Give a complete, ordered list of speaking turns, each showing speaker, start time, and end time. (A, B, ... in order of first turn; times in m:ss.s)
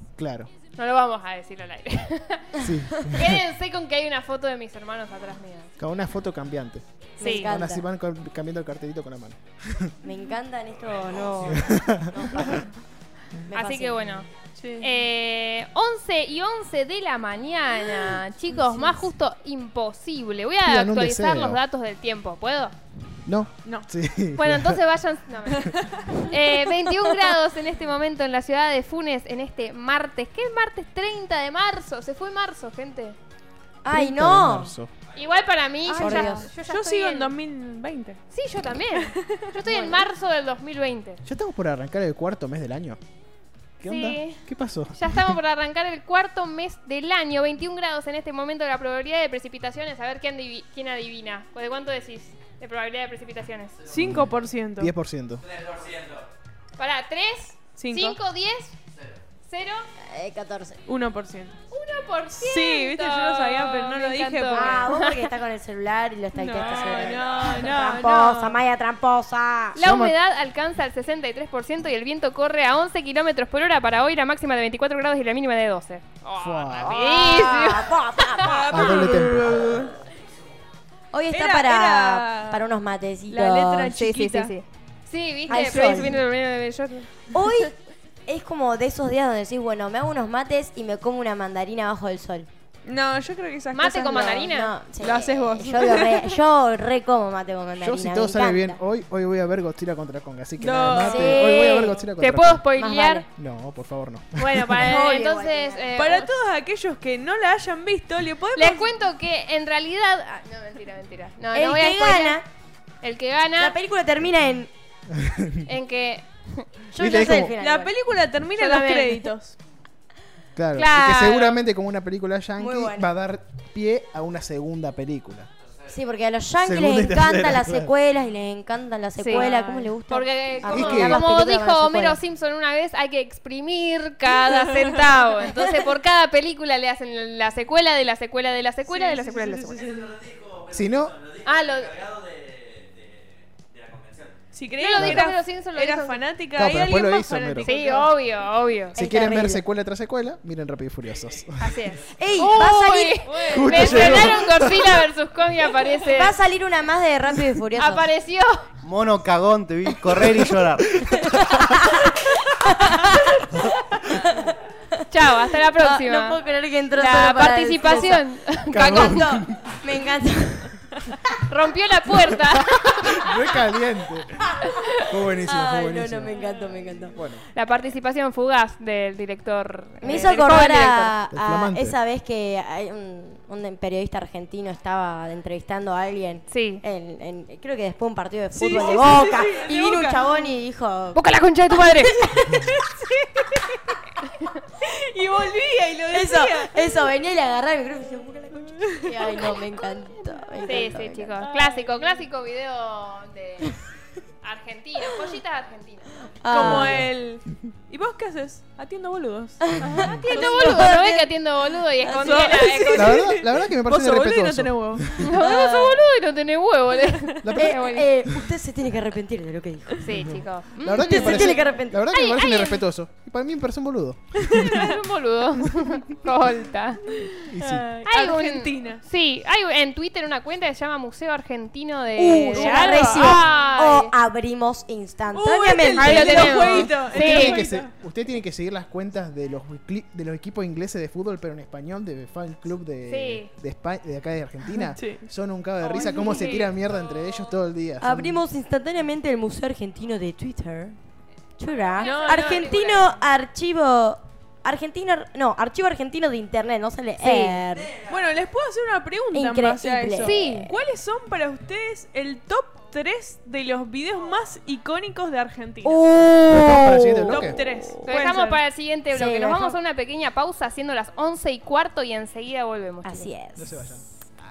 0:00.2-0:00.5 A
0:00.8-0:05.7 B
0:02.6-0:03.4 A
0:05.8-0:09.9 A
0:07.2-0:07.8 C
0:07.2-0:07.5 B
0:10.0-0:12.7 C
0:11.5-0:12.7 A
0:13.5-0:14.3 C
0:13.5-0:14.3 B
0:14.6-0:14.9 D
0:14.8-0:22.8 B
0:20.6-0:21.6 A
0:23.3-0:24.8 A
0:24.4-0:33.2 B
0:25.6-0:26.0 D
0:33.8-0:34.8 C
0:33.9-0:34.9 A
0:35.1-0:37.3 B
0:35.9-0:36.5 C
0:36.0-0:38.2 D
0:38.3-0:41.2 B
0:38.9-0:39.9 D
0:39.6-0:40.0 C
0:41.2-0:43.0 A
0:43.8-0:45.4 A
0:43.9-0:53.8 B
0:53.9-0:54.9 D
0:54.0-0:55.5 A
0:56.8-0:58.8 B
0:57.8-0:58.2 D
0:59.5-0:59.9 B
1:00.0-1:00.8 C
1:00.9-1:01.6 D
1:01.7-1:05.3 B
1:02.3-1:04.8 D
1:04.5-1:09.8 C
1:06.4-1:08.6 D
1:06.4-1:08.2 B
1:09.8-1:19.3 B
1:09.8-1:10.1 A
1:16.4-1:17.0 A
1:16.8-1:19.9 C
1:18.7-1:19.8 A
1:21.1-1:24.0 C
1:21.3-1:22.7 D
1:23.3-1:24.6 D
1:23.9-1:27.7 B
1:25.5-1:26.2 C
1:25.5-1:26.2 D
1:27.3-1:27.8 C
1:28.3-1:32.5 C
1:32.8-1:36.4 D
1:33.7-1:34.7 B
1:34.4-1:38.8 C
1:37.8-1:42.7 A
1:40.6-1:41.6 D
1:40.9-1:42.0 C
1:42.2-1:43.3 B
1:42.8-1:43.3 C
1:43.4-1:44.8 A
1:44.4-1:46.3 B
1:44.8-1:46.0 C
1:46.0-1:48.9 D
1:48.6-1:52.4 B
1:51.5-1:52.4 C
1:53.0-1:53.8 B
1:53.6-1:54.7 C
1:55.1-1:55.7 A
1:55.6-1:56.7 B
1:56.9-1:57.9 C
1:57.0-1:57.6 A
1:57.6-1:59.6 D
1:58.6-1:59.3 B
2:00.6-2:05.5 A
2:00.8-2:01.6 B
2:02.6-2:03.1 C
2:05.9-2:12.2 C
2:06.6-2:07.9 A
2:09.2-2:09.5 B
2:09.3-2:09.9 D
2:10.1-2:20.0 B
2:10.6-2:11.2 A
2:14.5-2:15.0 D
2:18.9-2:20.2 D
2:20.7-2:21.3 A
2:21.4-2:22.2 B
2:24.5-2:28.1 D
2:24.8-2:26.2 B
2:25.0-2:25.3 A
2:26.6-2:27.7 A
2:27.6-2:29.0 B
2:28.9-2:29.6 C
2:29.0-2:31.8 A
2:31.6-2:36.4 B
2:32.1-2:33.9 C
2:33.2-2:34.5 D
2:33.5-2:35.1 A
2:36.0-2:38.1 C
2:37.8-2:38.7 B
2:38.8-2:41.0 E
2:41.0-2:41.9 A
2:41.1-2:43.6 C
2:44.1-2:45.0 C
2:45.1-2:46.4 B
2:45.7-2:48.2 C
2:46.9-2:49.4 B
2:48.7-2:49.8 A
2:48.8-2:51.0 C
2:51.3-2:53.5 B
2:53.1-2:56.4 A
2:55.4-2:57.2 C
2:57.1-2:57.4 A
2:57.5-3:01.1 B
3:00.0-3:11.2 C
3:00.0-3:00.7 D
3:01.3-3:02.0 A
3:06.5-3:06.8 B
3:08.6-3:10.5 D
3:11.1-3:12.1 B
3:11.7-3:12.8 C
3:12.5-3:13.8 D
3:14.8-3:17.1 D
3:16.1-3:21.4 C
3:18.8-3:19.6 D
3:20.6-3:22.3 D
3:20.6-3:23.8 B
3:24.4-3:26.3 B
3:26.4-3:27.0 C
3:26.5-3:29.6 D
3:26.6-3:27.1 A
3:29.6-3:31.3 C
3:29.8-3:33.3 B
3:30.3-3:31.0 D
3:32.0-3:32.9 C
3:32.1-3:35.9 D
3:32.9-3:35.2 A
3:35.2-3:38.1 B
3:35.4-3:35.9 C
3:37.0-3:37.5 D
3:37.4-3:38.3 A
3:37.6-3:40.2 C
3:40.0-3:42.8 B
3:40.1-3:44.8 A
3:41.0-3:42.0 C
3:44.5-3:45.0 D
3:44.7-3:47.2 B
3:47.1-3:49.0 D
3:47.5-3:47.9 A
3:48.1-3:54.1 B
3:52.2-3:56.9 C
3:52.6-3:53.4 D
3:55.3-3:57.9 D
3:56.0-3:57.6 B
3:57.0-4:08.4 A
4:03.1-4:03.5 B
4:04.8-4:05.3 D
4:05.8-4:06.8 D
4:08.0-4:11.0 C
4:11.6-4:18.0 C
4:11.8-4:13.3 B
4:12.0-4:12.7 D
4:17.2-4:26.0 D
4:19.3-4:20.7 C
4:20.2-4:20.7 B
4:25.8-4:27.4 C
4:26.5-4:27.6 A
4:27.3-4:28.6 D
4:28.1-4:33.3 B
4:29.1-4:29.8 C
4:33.0-4:33.8 C
4:33.6-4:34.1 A